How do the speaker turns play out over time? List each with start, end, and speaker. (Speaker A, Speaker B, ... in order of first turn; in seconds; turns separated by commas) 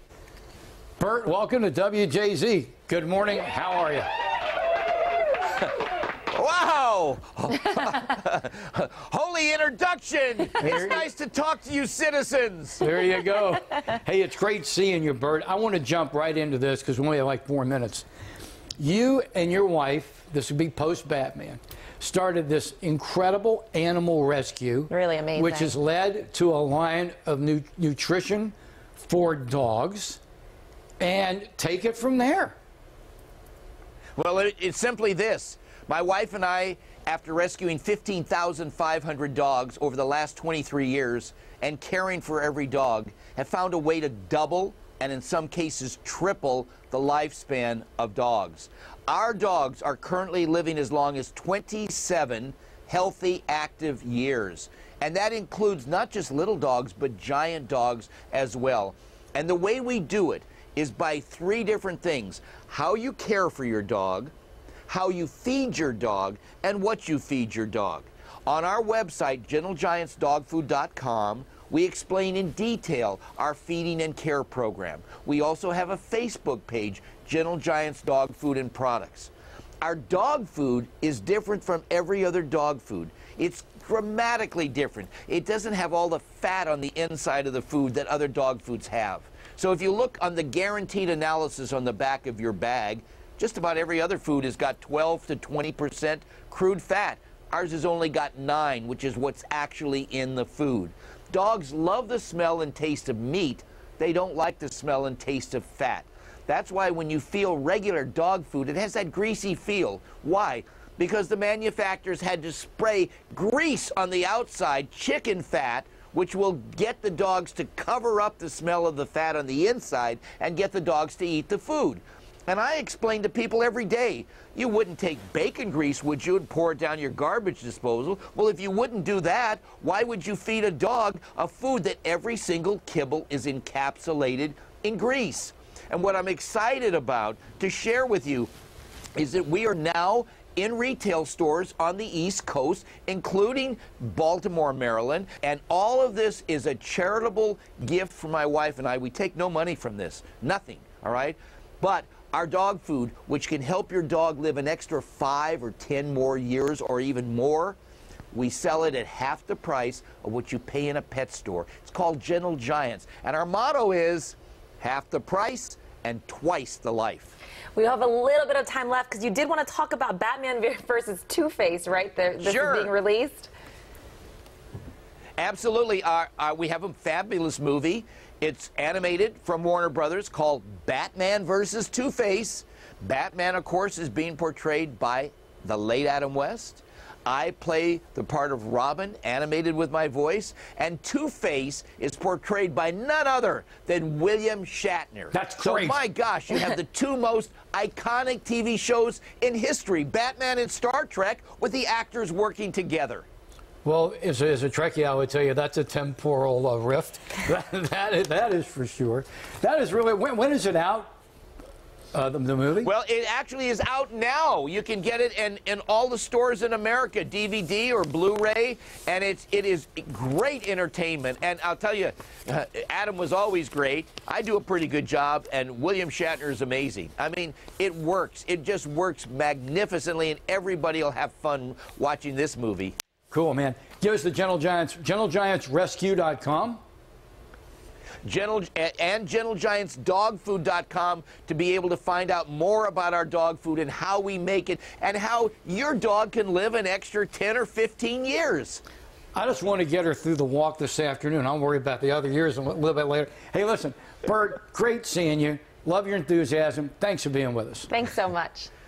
Speaker A: 1.0-4.1, Speaker B: 6.3-12.8, Speaker A: 10.6-11.0, Speaker A: 12.8-18.1, Speaker A: 18.8-30.2, Speaker C: 24.9-25.7, Speaker A: 31.0-32.5, Speaker B: 34.2-64.3, Speaker B: 64.9-138.5, Speaker B: 139.2-157.8, Speaker B: 158.3-167.3, Speaker C: 167.8-173.5, Speaker B: 172.4-172.9, Speaker B: 175.4-203.3, Speaker A: 195.3-196.0, Speaker A: 203.8-211.1, Speaker A: 212.1-212.9, Speaker B: 212.8-232.9, Speaker A: 233.3-236.8, Speaker B: 238.2-248.8, Speaker A: 249.3-257.9, Speaker C: 257.9-258.7